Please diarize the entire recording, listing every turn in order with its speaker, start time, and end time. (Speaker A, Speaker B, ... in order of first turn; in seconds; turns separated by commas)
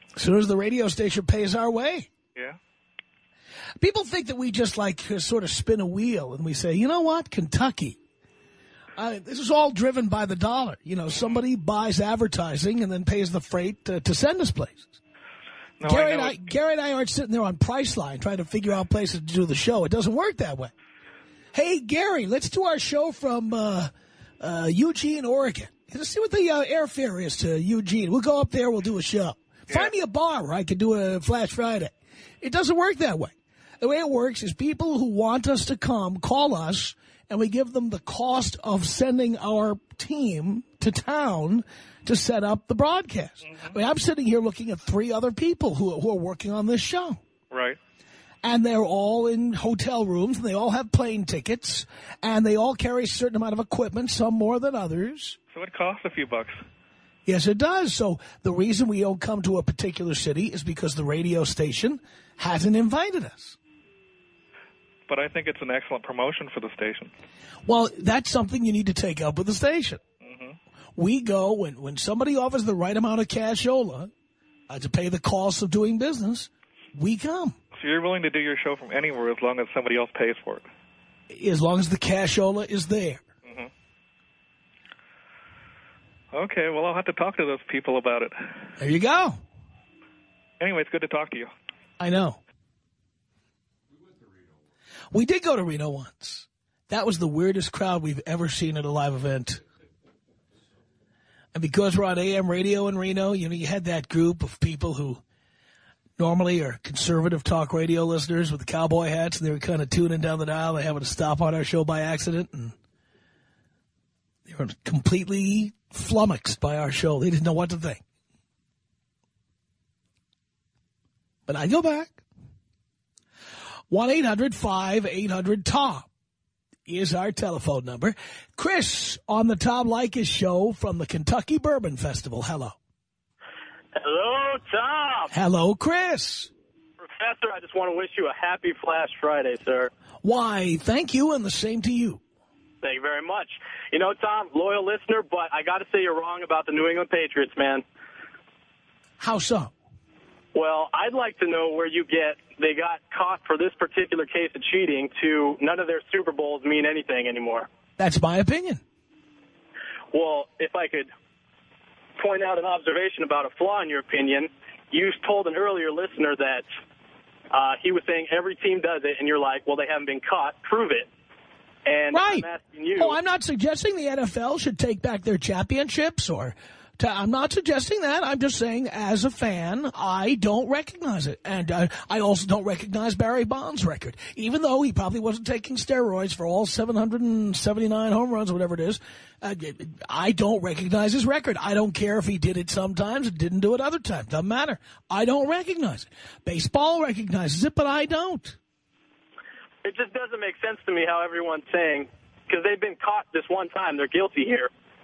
Speaker A: 0.1-2.1, Speaker A: 3.8-8.0, Speaker A: 9.0-14.9, Speaker B: 11.1-11.4, Speaker B: 15.8-16.5, Speaker A: 15.8-20.7, Speaker A: 21.5-47.2, Speaker B: 43.4-43.8, Speaker B: 47.5-47.8, Speaker A: 48.4-55.4, Speaker B: 55.5-56.6, Speaker A: 57.2-63.6, Speaker B: 65.1-67.1, Speaker A: 67.7-70.0, Speaker B: 70.2-70.5, Speaker A: 71.0-74.1, Speaker A: 74.7-77.5, Speaker B: 77.8-80.6, Speaker A: 81.3-83.2, Speaker B: 83.4-83.7, Speaker B: 86.3-88.3, Speaker A: 88.8-89.4, Speaker B: 90.6-91.5, Speaker A: 92.0-92.4, Speaker A: 95.1-99.6, Speaker A: 101.5-105.2, Speaker A: 106.2-112.7, Speaker A: 114.5-118.0, Speaker A: 121.5-122.2, Speaker A: 123.9-126.1, Speaker A: 126.8-132.8, Speaker C: 133.9-135.3, Speaker A: 135.3-136.5, Speaker C: 137.0-139.9, Speaker A: 140.2-142.2, Speaker C: 142.8-147.8, Speaker A: 149.2-149.7, Speaker C: 150.5-157.7, Speaker A: 158.0-158.8, Speaker C: 160.1-161.1, Speaker C: 162.2-166.7, Speaker C: 167.5-171.1, Speaker C: 171.8-173.1, Speaker A: 172.1-198.6, Speaker C: 199.8-204.7